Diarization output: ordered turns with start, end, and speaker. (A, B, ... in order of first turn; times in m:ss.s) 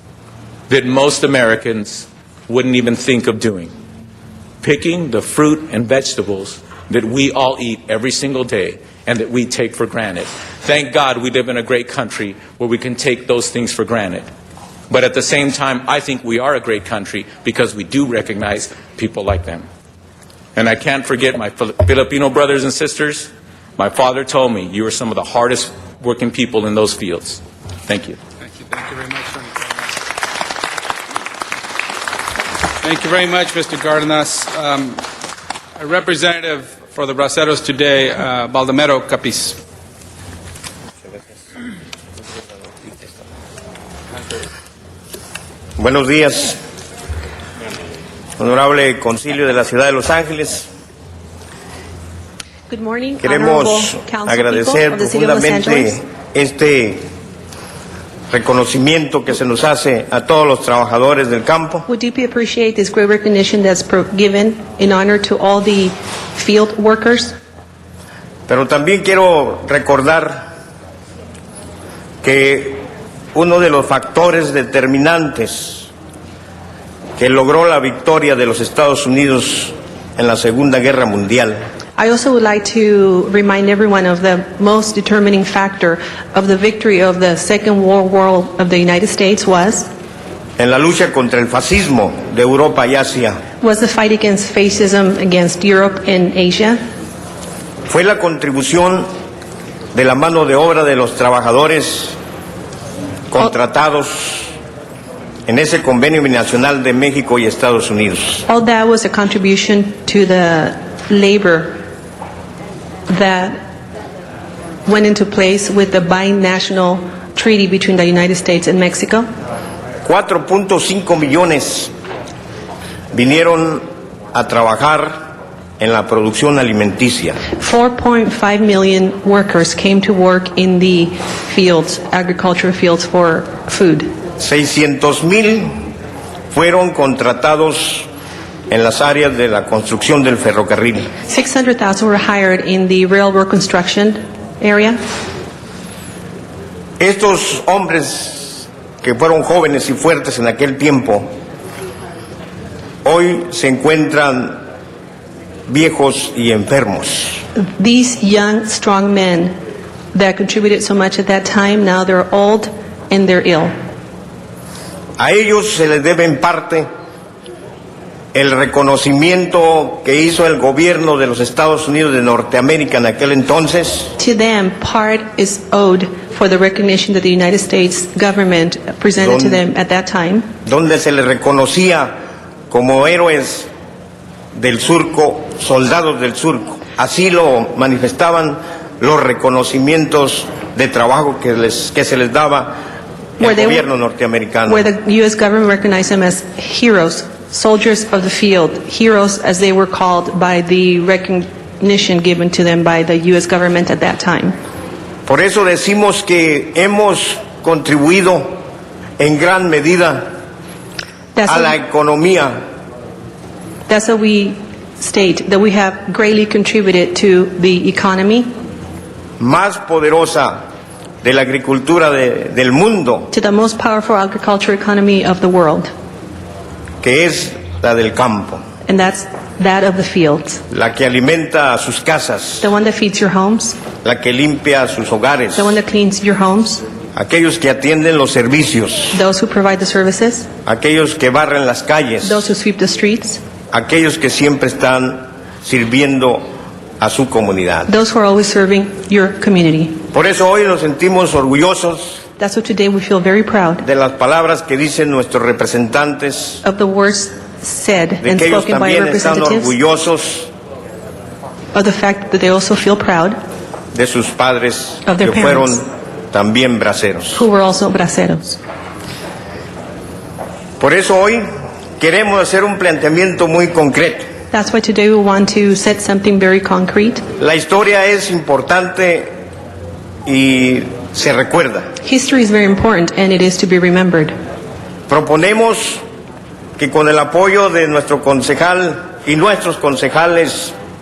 0:00.7-0:03.7 A
0:04.6-0:14.2 A
0:14.9-0:19.6 A
0:20.6-0:28.2 A
0:28.5-0:30.0 B
0:32.8-0:35.0 B
0:35.8-0:39.6 B
0:45.8-0:46.6 C
0:48.4-0:50.7 C
0:52.7-0:56.0 D
0:53.2-0:57.1 C
0:58.3-1:01.8 C
1:01.9-1:07.4 D
1:08.5-1:10.5 C
1:12.2-1:15.9 C
1:17.2-1:21.6 C
1:22.0-1:29.9 D
1:30.6-1:33.4 C
1:33.6-1:36.8 D
1:37.9-1:39.1 C
1:39.9-1:42.2 C
1:43.3-1:44.5 C
1:45.5-1:48.4 C
1:48.5-1:51.8 D
1:53.1-1:53.6 D
1:54.8-1:59.3 D
2:00.0-2:01.9 C
2:03.1-2:05.2 C
2:05.8-2:07.4 C
2:07.6-2:14.1 D
2:14.4-2:15.9 C
2:16.5-2:18.1 C
2:18.7-2:21.1 C
2:21.2-2:25.0 D
2:27.0-2:31.3 C
2:33.0-2:34.6 C
2:35.7-2:37.4 C
2:37.5-2:39.6 D
2:40.1-2:43.8 D
2:45.2-2:46.9 C
2:48.3-2:54.1 C
2:54.2-3:00.5 D
2:59.2-2:59.6 C
3:00.6-3:02.1 C
3:02.7-3:03.7 C
3:04.5-3:12.8 C
3:13.4-3:13.9 D
3:13.4-3:14.9 C
3:14.6-3:24.6 D
3:25.2-3:28.6 C
3:29.2-3:30.3 C
3:31.3-3:31.7 D
3:31.5-3:32.6 C
3:33.9-3:38.5 D
3:39.4-3:40.6 C
3:41.2-3:43.3 C
3:43.3-3:45.9 D
3:47.0-3:48.6 C
3:48.8-3:50.6 D
3:50.7-3:52.7 C
3:52.6-3:53.8 D
3:54.0-3:55.8 C
3:55.6-3:56.8 D
3:57.1-3:59.2 C
3:59.1-4:00.5 D
4:00.6-4:02.5 C
4:02.2-4:03.4 D
4:03.7-4:06.4 C
4:07.0-4:07.9 C
4:07.9-4:10.0 D
4:10.1-4:12.2 C
4:12.4-4:13.8 D
4:13.8-4:16.6 C
4:16.6-4:19.7 D
4:18.2-4:20.5 C
4:21.7-4:23.4 D
4:23.9-4:27.4 C
4:25.0-4:25.8 D
4:27.3-4:28.6 D
4:30.8-4:31.4 C
4:32.0-4:34.3 C
4:34.5-4:37.2 D
4:37.4-4:39.3 C
4:40.2-4:41.9 C
4:42.0-4:44.3 D
4:45.1-4:46.0 C
4:46.8-4:50.7 C